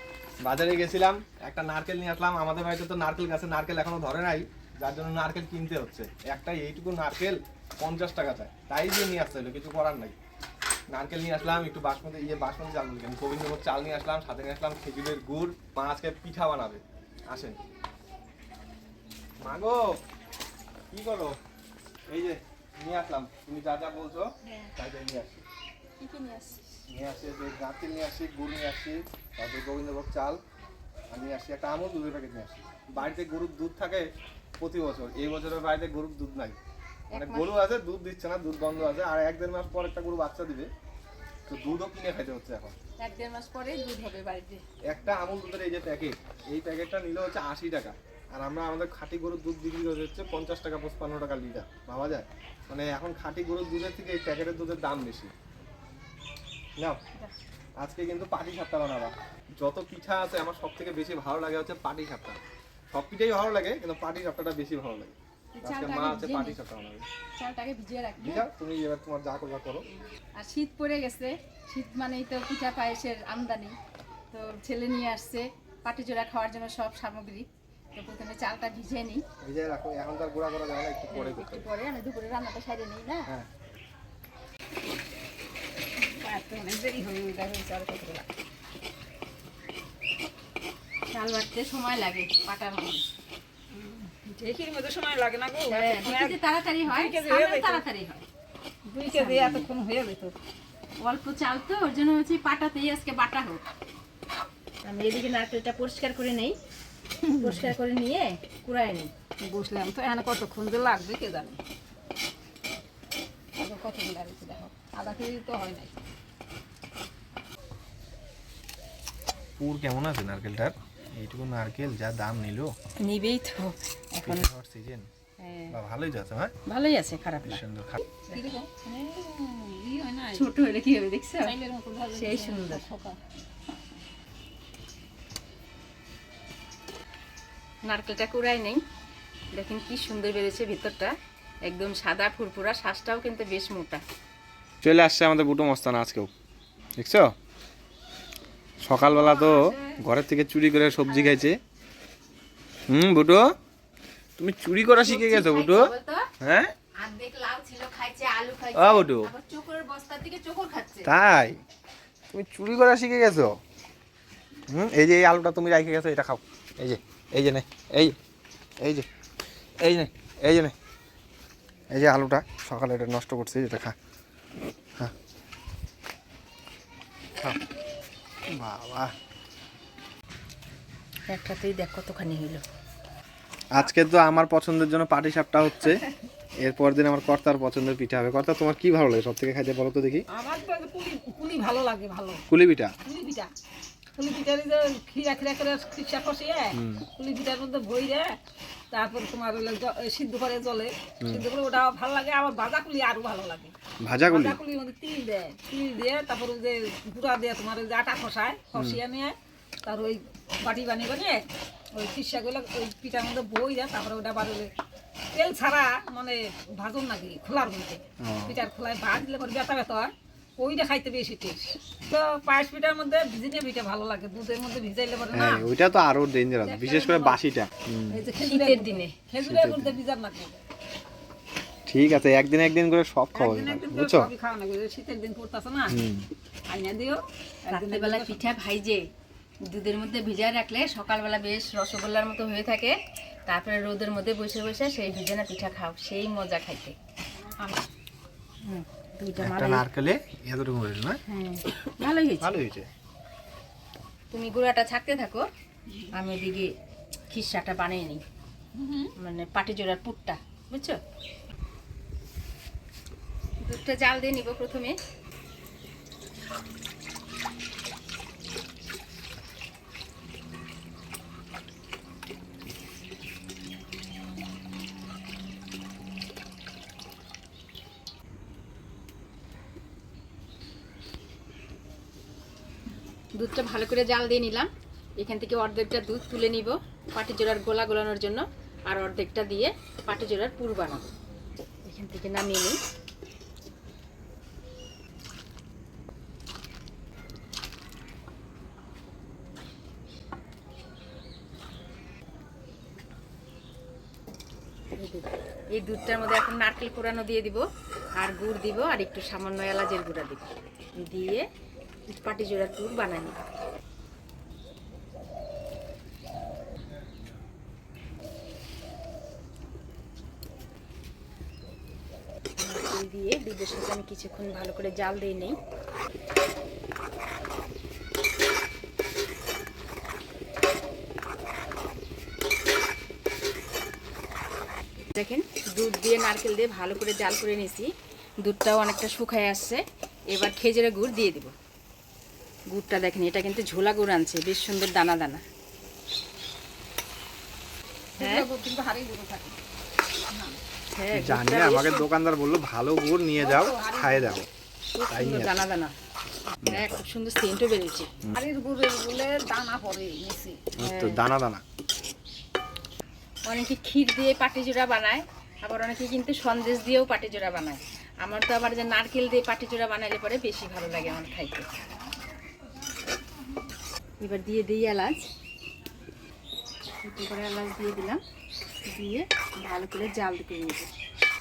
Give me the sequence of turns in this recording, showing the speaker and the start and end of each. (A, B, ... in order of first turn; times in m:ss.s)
0:00.4-0:10.2 A
0:10.9-0:17.6 A
0:19.4-0:20.0 A
0:20.9-0:21.4 A
0:22.1-0:25.4 A
0:24.4-0:24.7 B
0:26.0-0:26.8 B
0:26.9-0:30.4 A
0:31.1-0:34.1 A
0:34.6-0:36.6 A
0:37.1-0:37.5 B
0:37.1-0:40.7 A
0:41.5-0:42.7 A
0:43.0-0:44.6 B
0:44.9-0:55.3 A
0:57.8-1:02.4 A
1:02.9-1:07.0 A
1:05.5-1:06.6 B
1:07.4-1:08.4 B
1:08.2-1:09.8 A
1:10.4-1:13.7 B
1:14.3-1:19.2 B
1:19.4-1:21.7 A
1:21.1-1:23.3 B
1:26.0-1:28.3 C
1:31.1-1:33.0 B
1:33.7-1:37.8 C
1:35.7-1:38.2 B
1:38.9-1:40.3 C
1:39.1-1:39.7 B
1:41.0-1:43.6 B
1:44.8-1:46.6 B
1:47.3-1:47.7 C
1:47.4-1:49.1 B
1:49.4-1:51.6 C
1:53.6-1:55.9 C
1:59.6-2:02.7 A
2:03.0-2:04.5 B
2:04.2-2:05.1 A
2:05.4-2:05.8 B
2:05.7-2:06.5 A
2:06.7-2:07.6 B
2:07.4-2:08.0 A
2:08.3-2:10.5 C
2:10.3-2:11.5 B
2:11.4-2:13.2 C
2:12.1-2:12.8 B
2:17.9-2:18.8 B
2:19.5-2:21.1 B
2:21.7-2:24.0 B
2:24.8-2:26.3 A
2:27.0-2:27.3 A
2:28.8-2:31.6 A
2:29.1-2:30.0 C
2:32.9-2:33.5 A
2:34.4-2:36.7 A
2:35.0-2:36.2 B
2:37.0-2:41.1 B
2:38.7-2:39.3 A
2:41.0-2:41.6 A
2:42.3-2:43.6 A
2:44.7-2:48.2 A
2:48.8-2:49.1 A
2:49.8-2:50.7 A
2:51.9-2:53.9 A
2:58.5-2:59.1 A
3:01.3-3:02.6 B
3:03.7-3:06.0 A
3:06.6-3:10.2 A
3:10.3-3:12.4 C
3:12.5-3:12.9 A
3:13.0-3:13.5 C
3:14.2-3:18.4 C
3:16.7-3:17.0 A
3:18.9-3:23.7 C
3:24.0-3:24.6 A
3:24.3-3:29.3 C
3:29.8-3:34.7 C
3:35.3-3:45.7 C
3:38.2-3:38.6 A
3:45.3-3:48.2 A
3:46.6-3:47.4 C
3:48.1-3:50.5 C
3:48.4-3:49.1 B
3:49.4-3:50.0 A
3:51.9-3:54.3 A
3:53.3-3:56.0 C
3:55.9-3:56.3 A
3:56.7-3:58.4 C
3:57.7-3:59.0 B
3:59.7-4:02.9 B
4:03.5-4:06.9 B
4:08.6-4:09.8 B
4:09.4-4:11.2 A
4:11.3-4:12.5 B
4:12.4-4:12.9 A
4:14.3-4:15.4 B
4:16.1-4:16.7 B
4:17.3-4:18.2 B
4:18.7-4:19.1 C
4:19.2-4:21.0 B
4:23.6-4:25.0 B
4:43.4-4:44.7 B
4:45.2-4:51.0 B
4:51.8-4:52.8 B
5:05.0-5:07.6 B
5:08.2-5:11.4 B
5:12.1-5:13.4 B
5:22.6-5:25.6 B
5:35.1-5:37.9 B
5:38.4-5:39.8 B
5:40.3-5:41.5 B
5:42.7-5:45.4 B
5:48.2-5:49.6 C
5:48.2-5:48.4 B
5:50.9-5:52.0 B
5:51.1-5:54.5 A
5:53.4-5:54.4 C
5:54.9-5:55.9 B
5:55.1-5:55.6 A
5:56.6-5:58.1 B
5:58.4-6:00.6 C
6:00.8-6:01.6 A
6:00.8-6:01.2 B
6:03.5-6:11.6 B
6:14.2-6:15.3 B
6:17.0-6:18.2 B
6:18.9-6:20.9 B